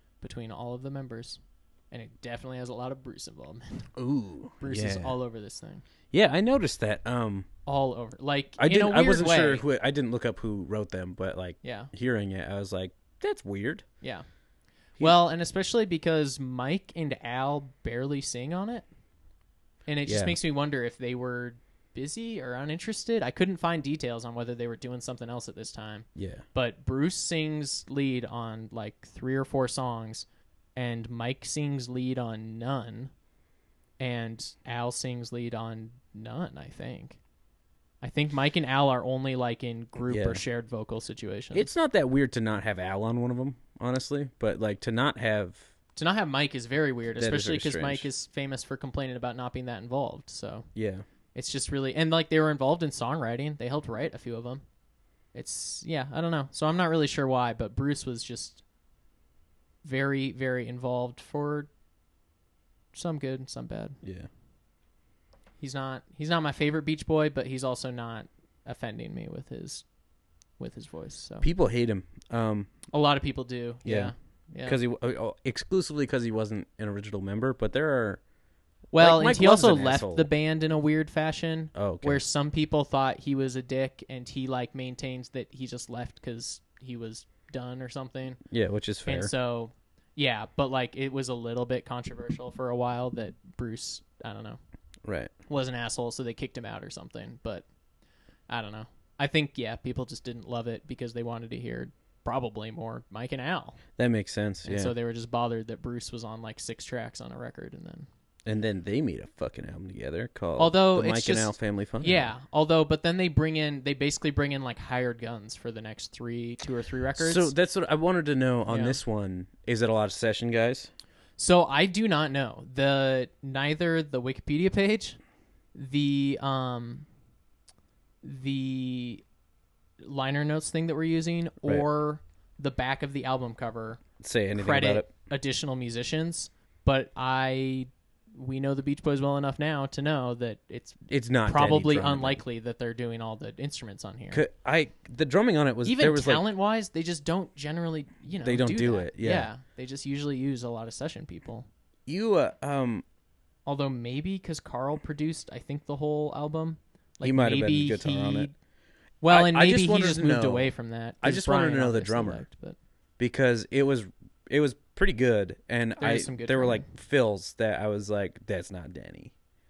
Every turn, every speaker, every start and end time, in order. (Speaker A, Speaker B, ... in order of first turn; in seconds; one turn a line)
Speaker A: 0.2-3.9
Speaker B: 4.0-5.2
Speaker A: 4.6-5.8
Speaker B: 6.1-7.5
Speaker A: 7.7-9.7
Speaker B: 8.6-13.9
Speaker A: 11.6-11.9
Speaker A: 15.0-18.9
Speaker A: 19.9-33.1
Speaker B: 20.1-20.4
Speaker B: 26.2-26.4
Speaker A: 34.0-37.2
Speaker A: 38.0-41.7
Speaker B: 40.1-40.4
Speaker B: 41.5-45.7
Speaker A: 46.0-50.7
Speaker B: 47.2-48.1
Speaker B: 50.8-51.0
Speaker A: 51.3-54.6
Speaker A: 55.3-58.6
Speaker A: 59.8-61.7
Speaker A: 62.9-64.0
Speaker B: 64.0-64.3
Speaker A: 65.6-69.9
Speaker A: 70.6-71.5
Speaker B: 71.4-72.7
Speaker A: 72.9-74.8
Speaker B: 73.8-74.1
Speaker B: 74.6-78.2
Speaker A: 78.9-88.4
Speaker B: 79.0-80.3
Speaker B: 81.7-82.2
Speaker B: 88.5-89.3
Speaker A: 89.1-94.6
Speaker B: 95.0-95.3
Speaker A: 95.5-97.7
Speaker A: 98.5-103.8
Speaker B: 104.0-104.9
Speaker A: 104.6-108.1
Speaker B: 108.5-112.3
Speaker A: 110.6-117.5
Speaker B: 117.2-120.9
Speaker A: 118.7-119.0
Speaker A: 121.4-125.2
Speaker A: 125.8-127.1
Speaker A: 128.2-129.2
Speaker A: 130.0-134.0
Speaker B: 134.2-135.1
Speaker A: 134.5-144.4
Speaker B: 141.1-142.4
Speaker B: 144.3-146.4
Speaker A: 145.8-151.7
Speaker B: 148.4-149.5
Speaker B: 152.1-153.1
Speaker A: 153.7-158.6
Speaker B: 157.2-158.5
Speaker A: 159.2-162.8
Speaker B: 159.2-162.4
Speaker B: 163.2-169.3
Speaker A: 166.0-166.9